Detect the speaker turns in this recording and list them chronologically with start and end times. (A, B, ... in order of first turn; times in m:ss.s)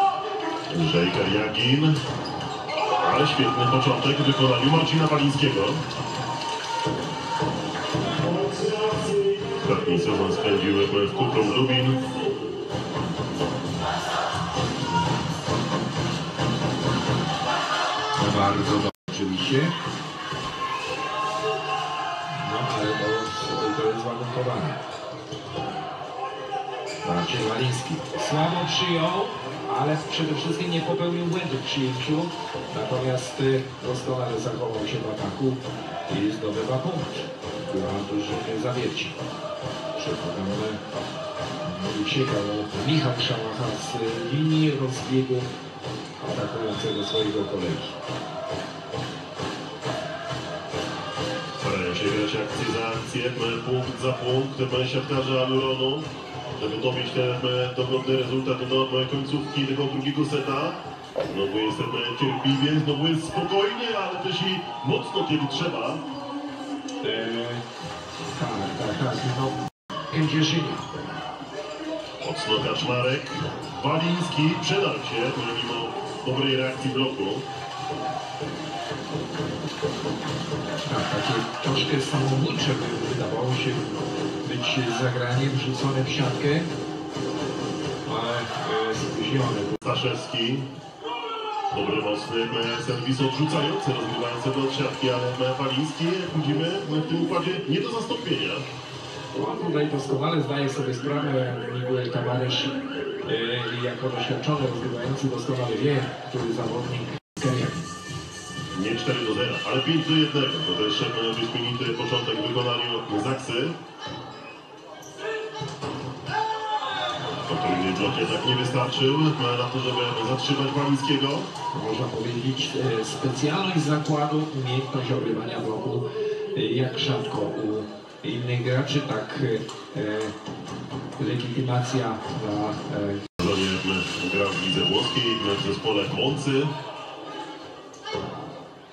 0:00.7-0:02.0 A
0:03.0-0:05.8 A
0:09.5-0:12.0 A
0:18.2-0:19.8 B
0:22.4-0:24.8 B
0:27.0-0:39.2 B
0:40.0-0:40.8 B
0:41.6-0:45.5 B
0:46.2-0:48.0 B
0:51.6-0:56.1 A
0:56.6-1:06.0 A
1:07.0-1:07.6 B
1:08.4-1:10.9 B
1:12.2-1:17.5 A
1:20.8-1:26.7 B
1:28.0-1:29.8 B
1:29.8-1:30.7 A
1:31.7-1:38.6 A
1:39.3-1:47.9 B
1:48.7-1:53.8 A
1:57.4-2:01.5 A
2:01.7-2:10.4 B
2:11.2-2:13.2 B
2:13.4-2:16.7 A